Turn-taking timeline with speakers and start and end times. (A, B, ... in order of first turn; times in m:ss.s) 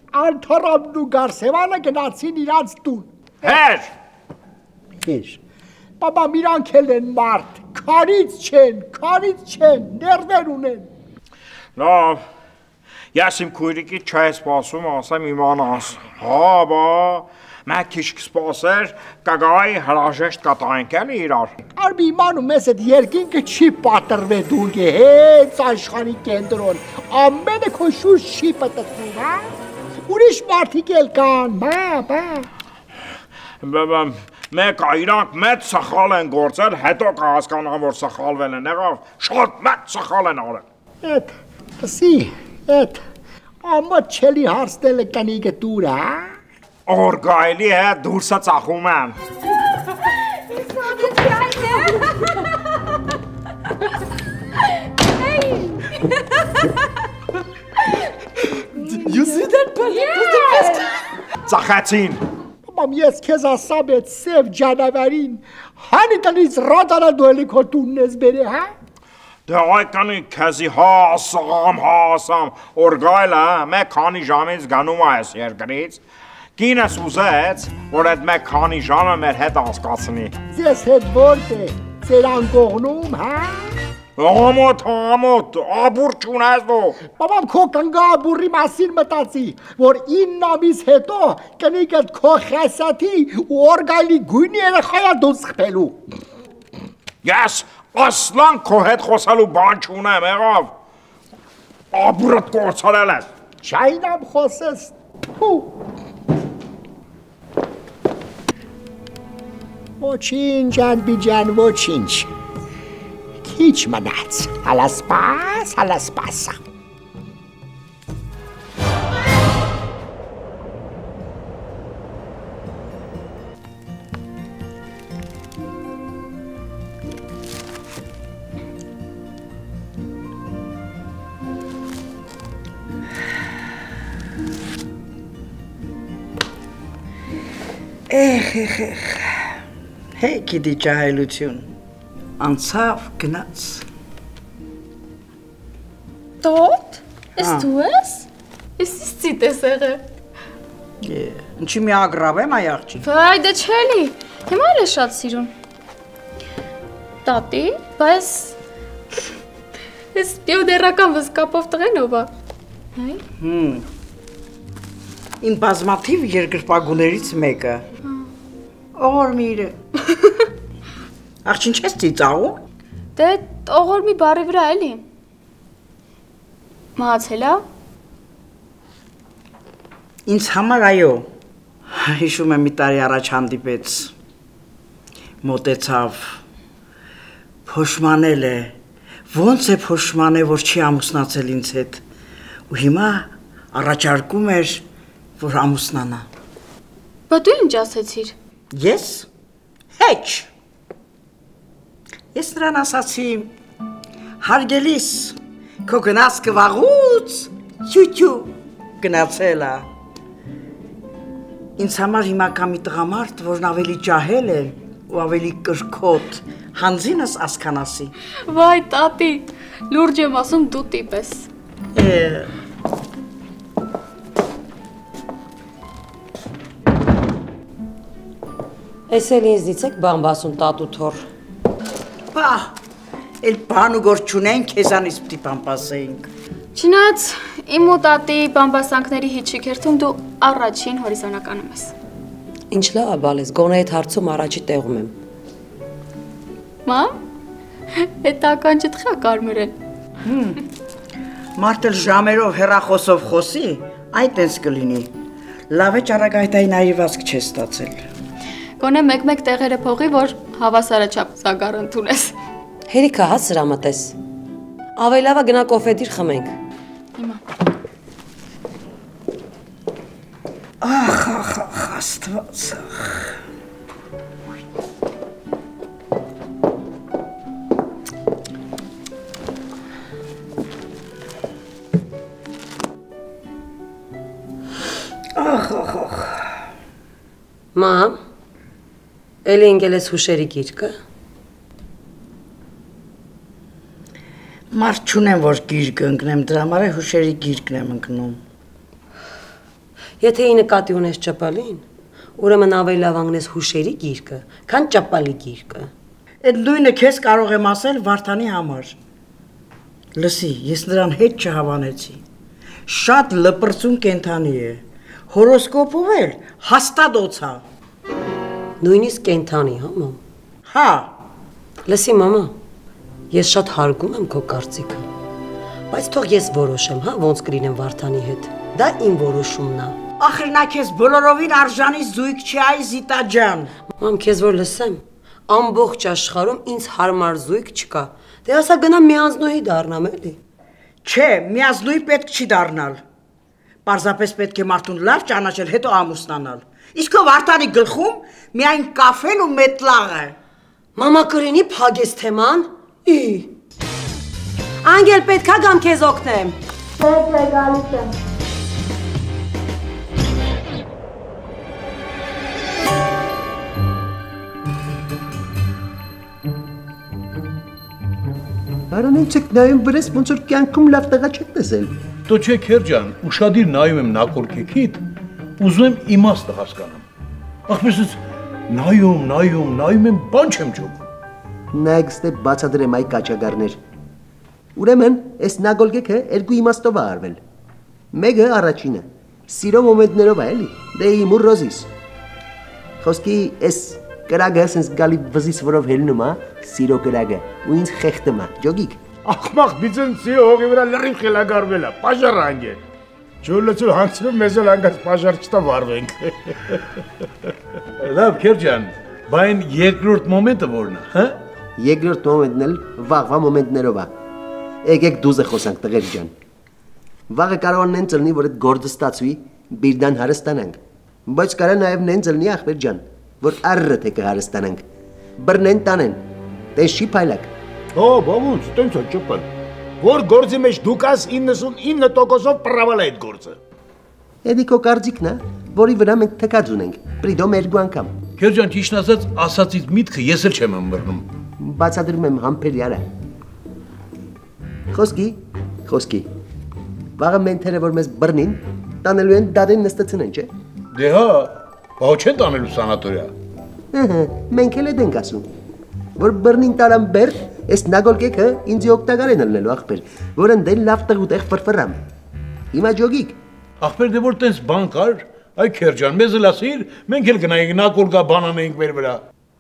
0:00.1-0:03.6 A
0:03.4-0:03.9 B
0:05.0-0:05.4 A
0:06.0-0:10.9 A
0:11.8-0:12.2 B
0:13.1-0:21.5 B
0:21.8-0:29.5 A
0:30.1-0:32.5 A
0:33.6-0:40.6 B
0:41.0-0:43.0 A
0:43.6-0:46.3 A
0:46.9-0:49.2 B
0:50.6-0:52.3 C
0:55.3-0:55.8 C
0:58.9-1:00.6 A
0:59.9-1:00.8 C
1:01.5-1:02.2 B
1:02.6-1:08.7 A
1:09.5-1:16.0 B
1:16.6-1:20.3 B
1:20.5-1:23.7 A
1:24.2-1:27.0 B
1:27.1-1:36.0 A
1:37.2-1:40.7 B
1:41.9-1:43.3 B
1:43.6-1:45.7 A
1:50.0-1:52.3 A
1:53.4-1:56.6 A
2:18.1-2:19.5 D
2:20.2-2:21.7 D
2:22.4-2:23.9 D
2:26.4-2:28.3 C
2:27.4-2:27.7 D
2:28.8-2:30.0 C
2:31.0-2:33.0 D
2:33.0-2:35.5 C
2:37.2-2:38.6 C
2:40.2-2:42.3 C
2:43.0-2:43.2 C
2:43.4-2:43.8 D
2:45.4-2:47.8 D
2:49.0-2:49.8 D
2:51.4-2:52.6 D
2:53.2-2:55.0 C
2:57.0-2:57.6 C
3:00.3-3:01.3 D
3:01.9-3:04.1 D
3:05.4-3:06.4 D
3:07.7-3:08.7 D
3:09.3-3:12.0 D
3:12.7-3:14.8 D
3:15.4-3:16.3 D
3:17.3-3:18.4 C
3:18.7-3:19.3 D
3:20.0-3:20.5 D
3:22.3-3:23.5 D
3:24.4-3:29.9 D
3:31.8-3:38.1 D
3:38.5-3:41.5 C
3:42.0-3:42.5 D
3:49.1-3:51.2 E
3:52.3-3:52.8 D
3:53.4-3:56.3 D
3:56.8-4:01.9 C
4:02.7-4:05.1 E
4:06.9-4:07.2 C
4:08.0-4:09.7 C
4:10.3-4:10.6 D
4:11.6-4:15.1 D
4:15.7-4:18.0 D
4:18.8-4:22.4 C
4:22.9-4:24.2 E
4:25.0-4:26.5 E
4:30.8-4:33.3 D
4:45.4-4:46.4 D
4:47.8-4:48.2 E
4:49.4-4:50.9 E
4:54.7-4:58.4 D
5:00.2-5:01.8 E
5:02.4-5:05.9 E
5:06.4-5:09.0 D
5:10.2-5:12.2 D
5:12.9-5:17.6 D
5:18.8-5:20.2 E
5:20.7-5:21.1 D
5:21.9-5:22.5 E
5:23.3-5:25.0 E
5:25.9-5:30.0 E
5:30.2-5:33.7 D
5:34.0-5:40.4 E
5:41.0-5:43.0 D
5:43.9-5:50.4 D
5:51.0-5:53.5 E
5:54.8-5:56.6 E
5:57.2-5:57.8 A
6:08.9-6:11.9 F
6:12.3-6:15.0 G
6:15.6-6:17.0 G
6:17.7-6:18.2 G
6:18.7-6:21.0 G
6:21.7-6:23.8 F
6:24.8-6:27.4 F
6:28.1-6:31.9 F
6:33.0-6:39.0 F
6:39.2-6:42.8 H
6:43.4-6:46.8 H
6:48.0-6:51.4 G
6:51.8-6:54.1 F
6:54.8-6:56.3 F
6:57.3-7:04.8 F
7:05.4-7:06.2 F
7:06.8-7:07.5 F
7:08.0-7:09.5 H
7:10.0-7:13.6 H
7:14.4-7:18.1 F
7:18.4-7:21.2 G
7:21.6-7:23.1 F
7:24.9-7:26.3 F
7:27.2-7:30.5 F
7:30.9-7:33.3 G
7:33.9-7:35.5 F
7:36.2-7:42.0 F
7:42.7-7:43.4 F
7:43.8-7:49.2 G